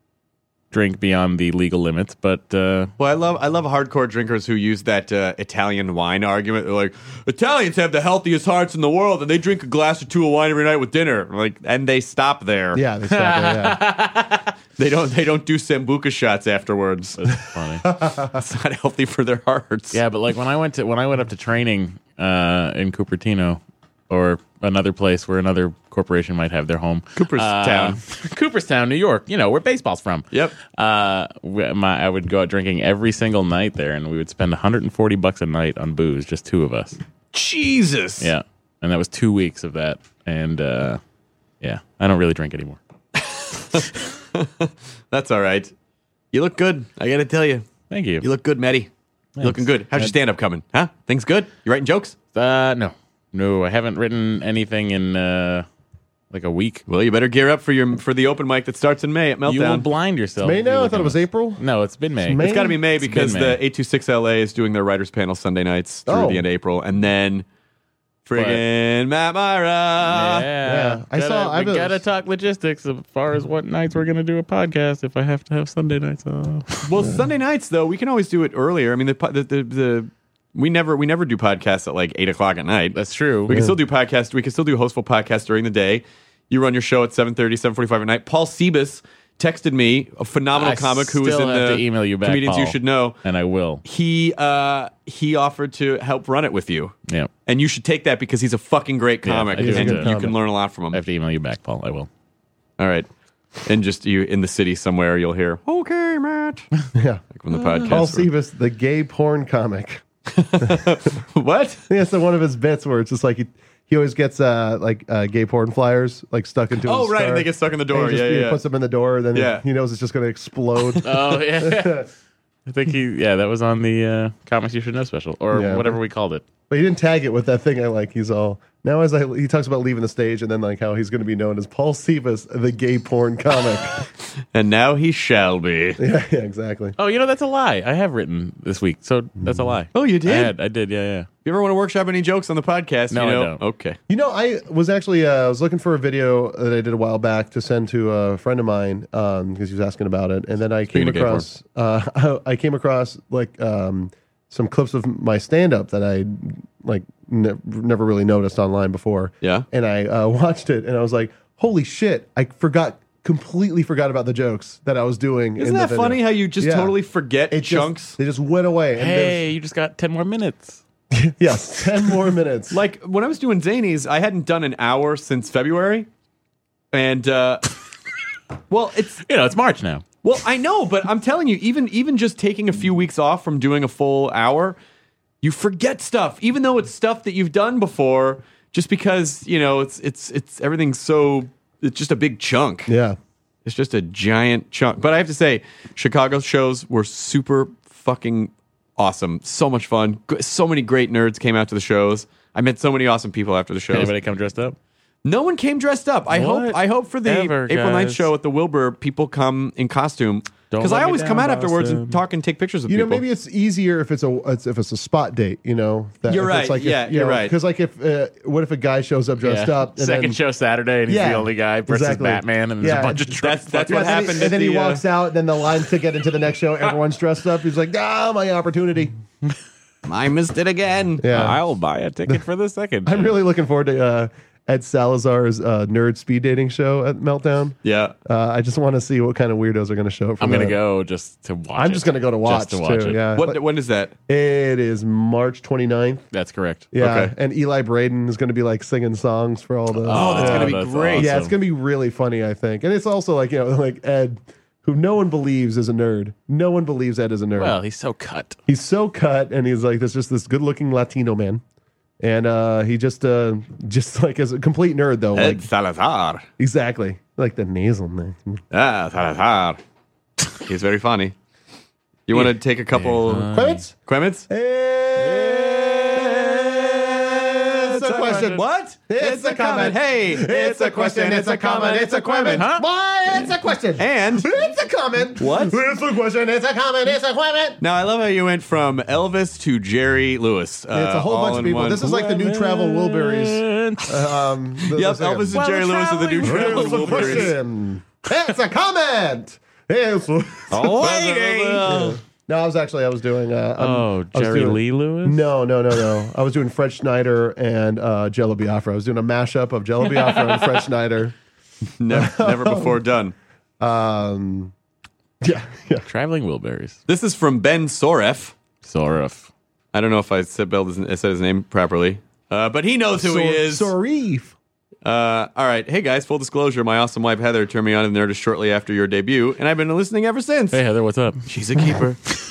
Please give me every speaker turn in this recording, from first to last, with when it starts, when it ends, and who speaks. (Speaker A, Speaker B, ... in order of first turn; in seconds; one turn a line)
Speaker A: 0.7-2.9
Speaker B: 3.0-12.8
Speaker C: 12.7-13.8
Speaker A: 13.1-14.5
Speaker B: 14.8-17.3
Speaker A: 17.2-17.8
Speaker C: 17.9-18.4
Speaker B: 18.3-20.0
Speaker A: 19.9-37.0
Speaker B: 27.2-28.0
Speaker B: 30.3-30.6
Speaker B: 37.3-38.3
Speaker A: 38.2-41.0
Speaker A: 41.6-42.8
Speaker B: 43.1-45.7
Speaker B: 46.3-47.7
Speaker A: 47.9-48.2
Speaker B: 48.2-48.9
Speaker A: 49.4-50.1
Speaker B: 49.4-52.1
Speaker A: 52.3-55.6
Speaker A: 56.3-56.8
Speaker B: 56.9-59.9
Speaker A: 59.5-63.6
Speaker C: 60.4-61.6
Speaker C: 62.2-62.8
Speaker B: 62.4-67.5
Speaker C: 66.1-66.4
Speaker B: 68.2-70.5
Speaker A: 68.3-68.6
Speaker A: 70.1-76.9
Speaker C: 70.6-72.0
Speaker B: 76.9-93.2
Speaker A: 82.9-83.6
Speaker C: 83.5-83.7
Speaker A: 90.5-93.8
Speaker B: 93.8-101.0
Speaker A: 99.2-100.3
Speaker C: 99.5-100.3
Speaker A: 100.9-102.1
Speaker B: 102.8-103.1
Speaker B: 103.6-106.7
Speaker C: 106.9-107.2
Speaker B: 107.3-108.2
Speaker A: 107.6-107.9
Speaker C: 107.8-110.0
Speaker B: 110.3-111.8
Speaker C: 110.6-110.8
Speaker C: 111.9-122.1
Speaker B: 116.8-118.6
Speaker B: 119.3-119.6
Speaker A: 121.0-122.1
Speaker A: 122.7-126.4
Speaker C: 125.5-126.0
Speaker C: 126.7-134.0
Speaker B: 134.5-136.0
Speaker C: 136.0-136.9
Speaker A: 137.0-141.3
Speaker C: 139.4-139.7
Speaker B: 139.9-140.5
Speaker B: 141.4-144.0
Speaker A: 143.1-143.6
Speaker C: 144.1-166.9
Speaker B: 150.9-151.4
Speaker B: 165.6-168.2
Speaker C: 167.5-169.4
Speaker A: 169.0-170.8
Speaker C: 171.1-172.8
Speaker B: 172.7-176.1
Speaker B: 176.9-177.6
Speaker B: 178.7-179.2
Speaker A: 179.3-180.0
Speaker B: 180.2-184.8
Speaker B: 185.4-192.9
Speaker C: 192.9-193.2
Speaker B: 193.6-204.1
Speaker A: 203.9-204.8
Speaker B: 205.2-213.2
Speaker A: 206.3-208.3
Speaker A: 210.7-212.2
Speaker C: 212.9-220.4
Speaker B: 216.3-217.5
Speaker A: 219.4-224.3
Speaker C: 221.1-223.3
Speaker B: 223.4-225.0
Speaker C: 223.9-229.1
Speaker B: 230.0-231.3
Speaker C: 231.2-231.6
Speaker A: 231.3-233.3
Speaker C: 233.1-240.8
Speaker B: 237.8-238.1
Speaker A: 240.4-243.2
Speaker C: 241.7-243.6
Speaker B: 243.4-244.1
Speaker C: 244.3-246.2
Speaker A: 246.3-246.9
Speaker C: 246.9-257.8
Speaker B: 247.0-247.3
Speaker A: 250.0-251.5
Speaker B: 250.1-251.3
Speaker A: 257.6-258.6
Speaker C: 258.7-261.6
Speaker C: 262.2-265.6
Speaker B: 265.3-266.4
Speaker C: 266.6-268.6
Speaker B: 268.7-269.8
Speaker B: 270.6-271.3
Speaker B: 272.3-274.5
Speaker A: 272.3-273.8
Speaker C: 273.5-273.9
Speaker C: 274.5-287.8
Speaker B: 275.9-282.6
Speaker A: 278.2-278.5
Speaker A: 282.5-282.9
Speaker B: 284.0-284.6
Speaker B: 285.4-285.8
Speaker B: 287.8-292.1
Speaker C: 290.9-295.6
Speaker A: 292.0-294.2
Speaker B: 294.9-297.5
Speaker A: 295.5-297.5
Speaker C: 296.4-301.1
Speaker A: 300.7-302.2
Speaker B: 300.8-302.2
Speaker C: 301.8-311.3
Speaker A: 303.8-305.4
Speaker B: 312.0-313.3
Speaker C: 312.1-313.0
Speaker C: 313.8-314.7
Speaker C: 315.4-316.1
Speaker A: 316.1-317.0
Speaker B: 317.1-318.6
Speaker A: 318.8-319.5
Speaker B: 319.9-323.9
Speaker C: 323.1-324.5
Speaker B: 325.0-330.8
Speaker A: 330.7-331.4
Speaker B: 331.5-332.2